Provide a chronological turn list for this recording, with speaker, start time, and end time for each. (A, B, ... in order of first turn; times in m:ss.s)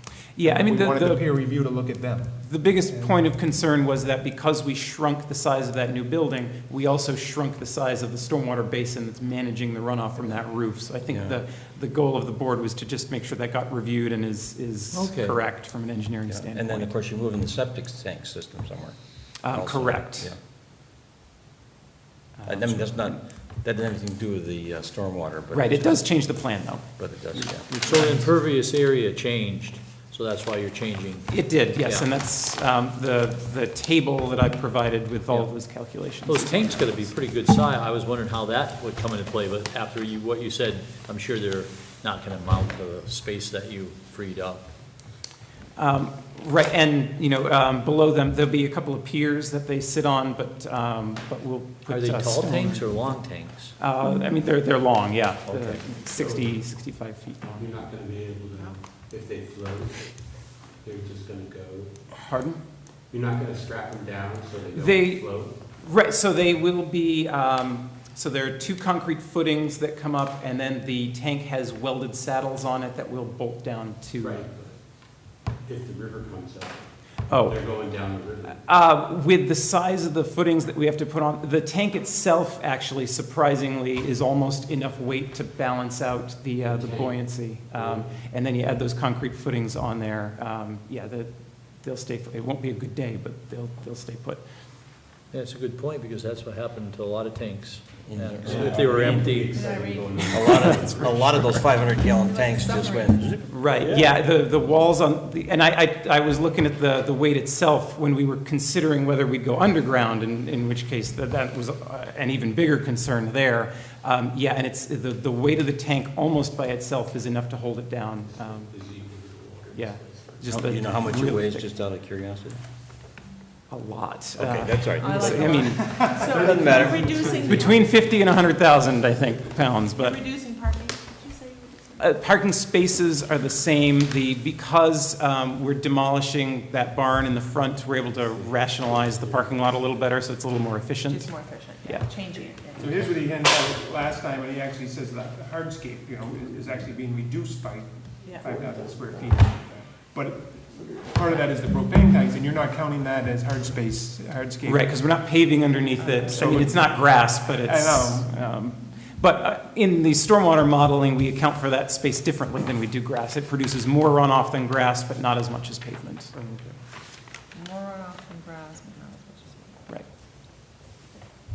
0:00.4-0:01.2 A
0:00.4-0:03.2 B
0:02.4-0:16.9 A
0:11.1-0:11.4 C
0:14.9-0:15.4 D
0:16.3-0:20.4 C
0:19.4-0:20.3 A
0:22.4-0:23.2 A
0:22.5-0:26.1 C
0:25.5-0:28.4 A
0:27.0-0:27.7 C
0:27.8-0:32.1 D
0:31.3-0:37.1 A
0:36.2-0:44.7 D
0:45.8-0:53.1 A
0:51.9-0:53.8 D
0:53.8-0:57.7 A
0:55.4-0:55.9 D
0:56.2-0:56.7 E
0:57.4-1:02.0 E
1:02.1-1:02.6 A
1:03.1-1:05.6 E
1:04.7-1:14.4 A
1:14.2-1:14.8 E
1:15.6-1:18.6 E
1:17.3-1:17.6 A
1:18.5-1:34.4 A
1:26.7-1:28.1 E
1:35.3-1:39.6 D
1:38.1-1:38.8 C
1:38.4-1:41.8 E
1:38.9-1:39.4 A
1:39.5-1:40.4 F
1:40.3-1:44.0 C
1:40.4-1:41.0 A
1:42.0-1:43.4 F
1:43.5-1:58.9 A
1:58.3-2:00.6 E
1:59.7-2:01.7 A
2:00.4-2:02.6 C
2:03.7-2:06.2 A
2:04.4-2:07.3 C
2:05.0-2:07.9 F
2:05.7-2:07.7 B
2:07.4-2:10.2 A
2:09.9-2:12.1 F
2:12.0-2:22.1 A
2:18.2-2:20.0 E
2:21.0-2:23.0 F
2:22.8-2:35.0 B
2:22.8-2:23.1 E
2:34.6-2:46.3 A
2:36.2-2:38.4 B
2:46.4-2:46.7 B
2:47.5-2:49.8 F